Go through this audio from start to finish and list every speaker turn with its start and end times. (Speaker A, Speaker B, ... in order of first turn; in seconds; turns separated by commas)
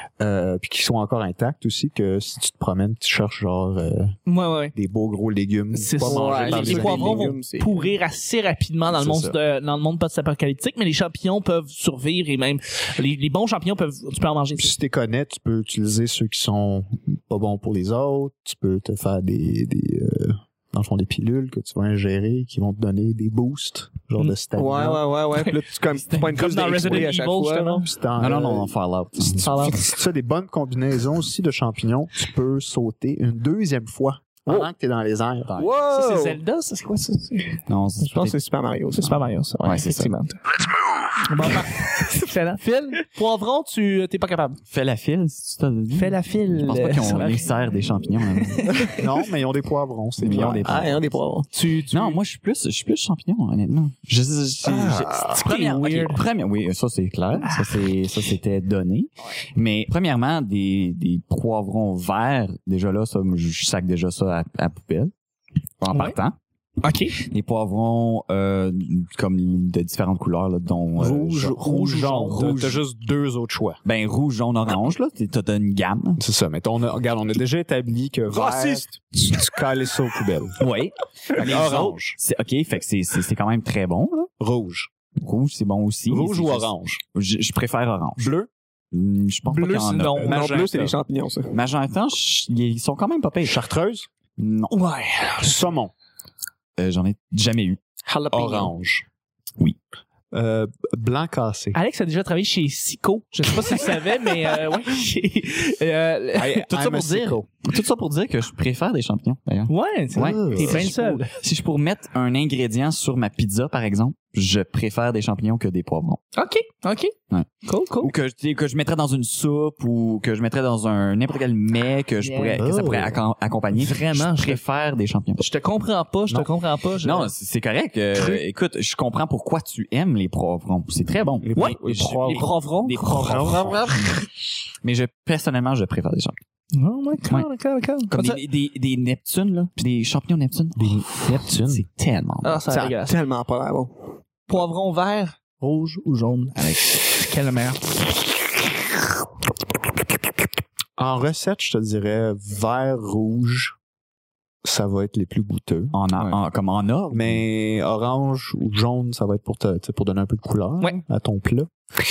Speaker A: 0.2-4.1, Speaker B: 4.3-4.7, Speaker A: 4.7-7.3, Speaker B: 5.7-14.8, Speaker C: 6.0-7.8, Speaker D: 6.3-6.9, Speaker D: 8.9-9.4, Speaker A: 14.6-25.0, Speaker C: 24.6-27.8, Speaker B: 25.3-25.6, Speaker D: 25.9-26.3, Speaker B: 26.3-27.8, Speaker A: 27.7-28.7, Speaker D: 28.2-29.7, Speaker A: 29.3-35.5, Speaker B: 29.4-29.9, Speaker C: 35.6-36.4, Speaker B: 35.9-37.6, Speaker D: 37.7-38.4, Speaker C: 38.0-39.2, Speaker B: 38.9-40.4, Speaker D: 39.6-40.1, Speaker B: 41.3-44.6, Speaker D: 44.7-48.7, Speaker B: 45.9-47.5, Speaker B: 48.6-49.0, Speaker A: 49.0-50.9, Speaker D: 50.2-51.0, Speaker C: 50.3-51.5, Speaker B: 51.5-52.2, Speaker D: 51.9-65.1, Speaker C: 54.6-55.4, Speaker B: 55.3-56.2, Speaker D: 65.8-66.4, Speaker B: 66.8-67.2, Speaker D: 67.3-72.8, Speaker A: 71.0-73.8, Speaker B: 71.6-72.5, Speaker D: 73.8-76.2, Speaker A: 76.2-80.6, Speaker C: 78.3-78.9, Speaker D: 80.6-84.3, Speaker A: 81.4-82.2, Speaker A: 84.4-84.9, Speaker D: 85.2-88.3, Speaker A: 86.1-87.0, Speaker A: 88.2-88.5, Speaker D: 88.9-90.4, Speaker B: 89.5-90.4, Speaker A: 90.2-91.0, Speaker C: 90.3-91.5, Speaker D: 91.5-93.6, Speaker A: 93.5-94.1, Speaker D: 94.4-94.7, Speaker B: 94.7-95.6, Speaker A: 95.4-95.9, Speaker D: 96.8-97.8, Speaker C: 98.1-98.7, Speaker A: 98.3-99.1, Speaker A: 100.3-101.8, Speaker B: 101.7-107.0, Speaker A: 106.3-107.5, Speaker D: 106.7-116.2, Speaker B: 109.7-111.3, Speaker A: 110.2-110.9, Speaker B: 116.3-118.1, Speaker D: 118.0-125.5, Speaker B: 122.2-122.6, Speaker A: 122.6-123.2, Speaker B: 123.7-124.6, Speaker B: 125.4-127.3, Speaker D: 127.0-134.2, Speaker A: 128.1-128.4, Speaker A: 131.4-133.9, Speaker B: 131.6-133.3, Speaker D: 134.8-136.4, Speaker B: 136.8-138.4, Speaker D: 138.1-142.6, Speaker A: 140.8-141.8, Speaker B: 142.4-143.2, Speaker C: 142.7-143.9, Speaker B: 144.5-148.2, Speaker D: 146.6-146.8, Speaker A: 151.0-153.8, Speaker A: 154.6-156.3, Speaker D: 155.9-157.4, Speaker A: 157.1-161.7